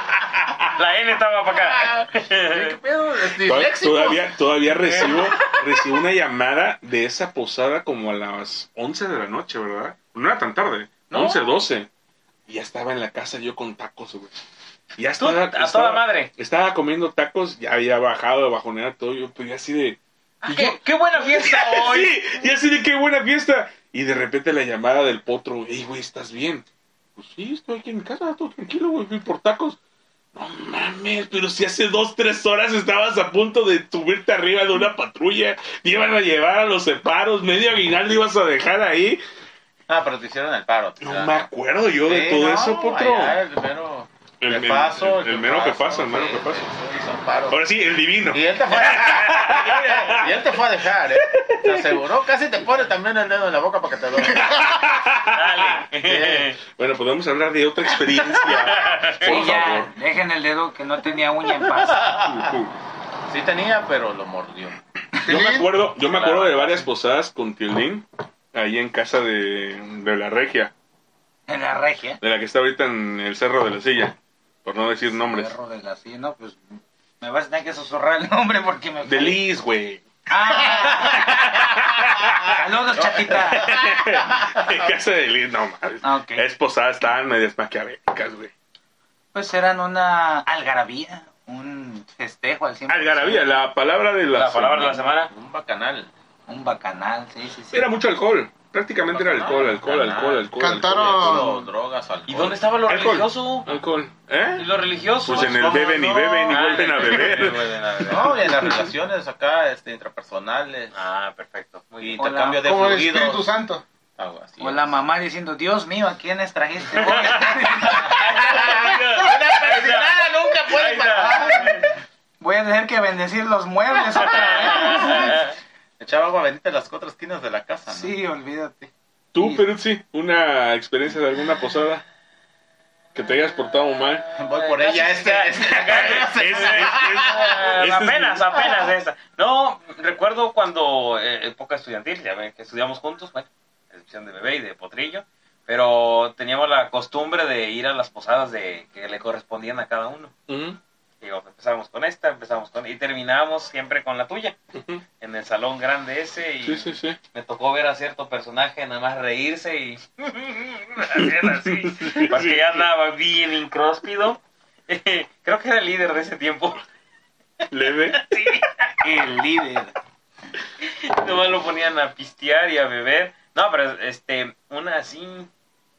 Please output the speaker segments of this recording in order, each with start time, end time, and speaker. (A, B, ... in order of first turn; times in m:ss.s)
0:00.7-0:02.7 A
0:01.5-0:04.4 B
0:03.4-0:11.9 C
0:04.9-0:05.1 B
0:05.1-0:05.5 A
0:11.1-0:11.5 B
0:12.5-0:14.3 C
0:15.0-0:26.6 C
0:15.2-0:16.3 A
0:20.4-0:22.2 A
0:27.2-0:29.8 C
0:30.3-0:39.2 C
0:39.9-0:41.4 B
0:41.0-0:43.4 C
0:42.0-0:47.6 B
0:44.4-0:46.7 C
0:47.5-0:50.5 C
0:48.3-0:54.9 B
0:51.1-0:52.0 C
0:54.3-0:55.8 C
0:55.3-0:56.6 A
0:56.0-0:56.5 B
0:56.6-0:59.9 C
0:58.3-0:58.7 B
0:58.7-0:59.4 A
0:59.2-1:02.0 D
1:01.9-1:02.4 B
1:02.1-1:02.7 C
1:03.3-1:04.8 B
1:05.2-1:10.7 C
1:05.2-1:05.7 E
1:06.2-1:06.8 A
1:11.5-1:12.2 D
1:12.2-1:15.5 C
1:15.1-1:19.4 D
1:19.0-1:20.0 C
1:20.3-1:21.4 D
1:20.6-1:22.6 C
1:22.4-1:23.8 D
1:23.5-1:28.5 C
1:23.6-1:24.9 B
1:26.0-1:26.4 D
1:29.3-1:33.5 D
1:32.9-1:35.0 C
1:34.3-1:35.3 A
1:35.3-1:36.1 B
1:36.5-1:37.9 D
1:37.7-1:41.5 C
1:39.1-1:42.6 B
1:40.6-1:41.6 E
1:42.3-1:43.8 A
1:42.9-1:44.6 C
1:44.6-1:45.6 A
1:45.2-1:47.7 C
1:45.3-1:47.3 B
1:46.5-1:48.4 A
1:48.1-1:51.0 B
1:48.3-1:48.8 C
1:50.9-1:52.2 A
1:52.0-1:53.5 B
1:52.2-1:52.6 D
1:52.6-1:53.8 E
1:54.2-1:54.9 B
1:54.6-1:58.3 D
1:56.9-2:01.9 A
1:57.9-2:01.8 B
2:02.4-2:05.4 D
2:04.2-2:05.5 A
2:04.5-2:05.3 B
2:06.0-2:08.1 B
2:07.9-2:08.9 D
2:09.3-2:12.0 C
2:13.1-2:14.3 C
2:14.3-2:17.7 B
2:14.6-2:30.3 A
2:16.0-2:18.6 C
2:30.5-2:30.8 C
2:31.2-2:34.6 A
2:34.8-2:35.0 C
2:35.2-2:46.8 A
2:36.6-2:37.2 C
2:41.2-2:42.8 C
2:47.7-2:48.2 C
2:48.1-2:48.8 A
2:49.0-2:49.9 D
2:50.8-2:55.5 A